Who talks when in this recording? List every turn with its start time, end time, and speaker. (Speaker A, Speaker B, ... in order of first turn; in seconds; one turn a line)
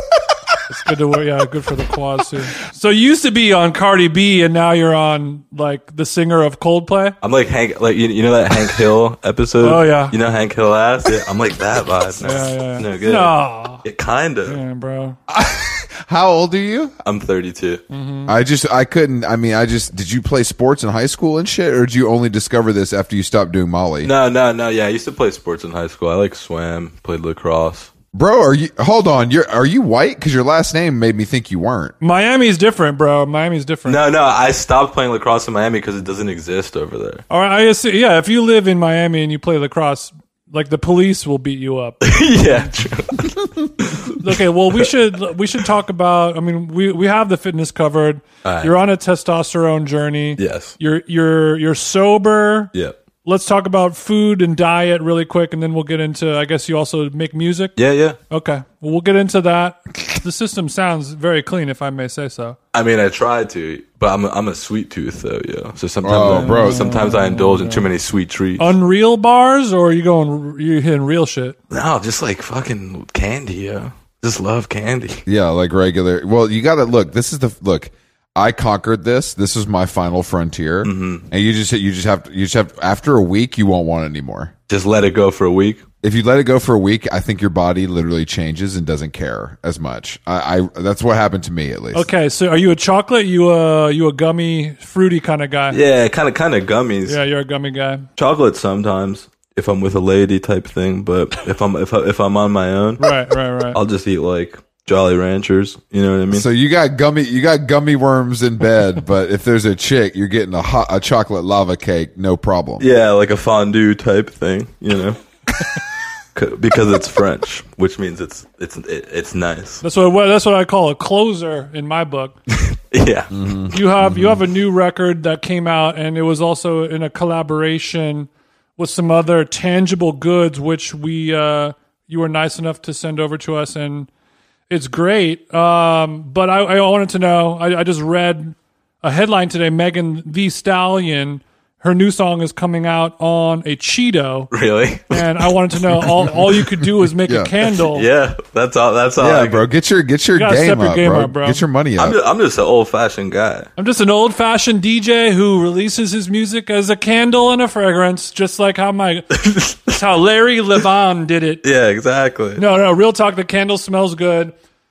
Speaker A: 0.7-7.2
Speaker B: 7.2-14.6
Speaker A: 9.6-10.2
Speaker A: 12.2-13.8
Speaker A: 14.5-15.2
Speaker C: 15.3-16.9
Speaker B: 17.0-17.8
Speaker A: 17.9-18.3
Speaker C: 18.3-24.1
Speaker B: 24.0-27.9
Speaker C: 28.1-31.9
Speaker A: 32.0-34.0
Speaker B: 33.9-37.2
Speaker A: 37.3-42.7
Speaker B: 42.0-44.9
Speaker A: 44.2-52.7
Speaker B: 48.4-48.8
Speaker B: 50.4-50.8
Speaker A: 53.2-57.8
Speaker B: 57.8-58.2
Speaker A: 58.3-62.6
Speaker B: 62.7-68.8
Speaker C: 66.0-66.9
Speaker A: 66.2-67.9
Speaker A: 68.6-71.6
Speaker B: 71.7-75.2
Speaker C: 75.3-84.5
Speaker B: 80.8-81.3
Speaker B: 84.7-85.8
Speaker C: 86.0-92.1
Speaker A: 91.9-95.8
Speaker B: 95.7-97.2
Speaker A: 97.1-98.1
Speaker B: 98.2-103.1
Speaker A: 103.0-103.8
Speaker B: 103.7-106.5
Speaker C: 106.3-112.9
Speaker B: 112.8-115.2
Speaker B: 116.3-119.8
Speaker A: 119.8-122.4
Speaker B: 122.5-123.6
Speaker C: 123.3-124.4
Speaker A: 123.7-134.1
Speaker A: 134.7-144.5
Speaker B: 144.5-146.5
Speaker A: 145.1-148.1
Speaker C: 147.2-147.5
Speaker B: 147.8-149.6
Speaker C: 149.2-152.2
Speaker A: 150.3-151.6
Speaker B: 152.0-153.7
Speaker A: 153.8-161.6
Speaker B: 159.3-160.0
Speaker B: 161.6-162.6
Speaker A: 162.6-164.6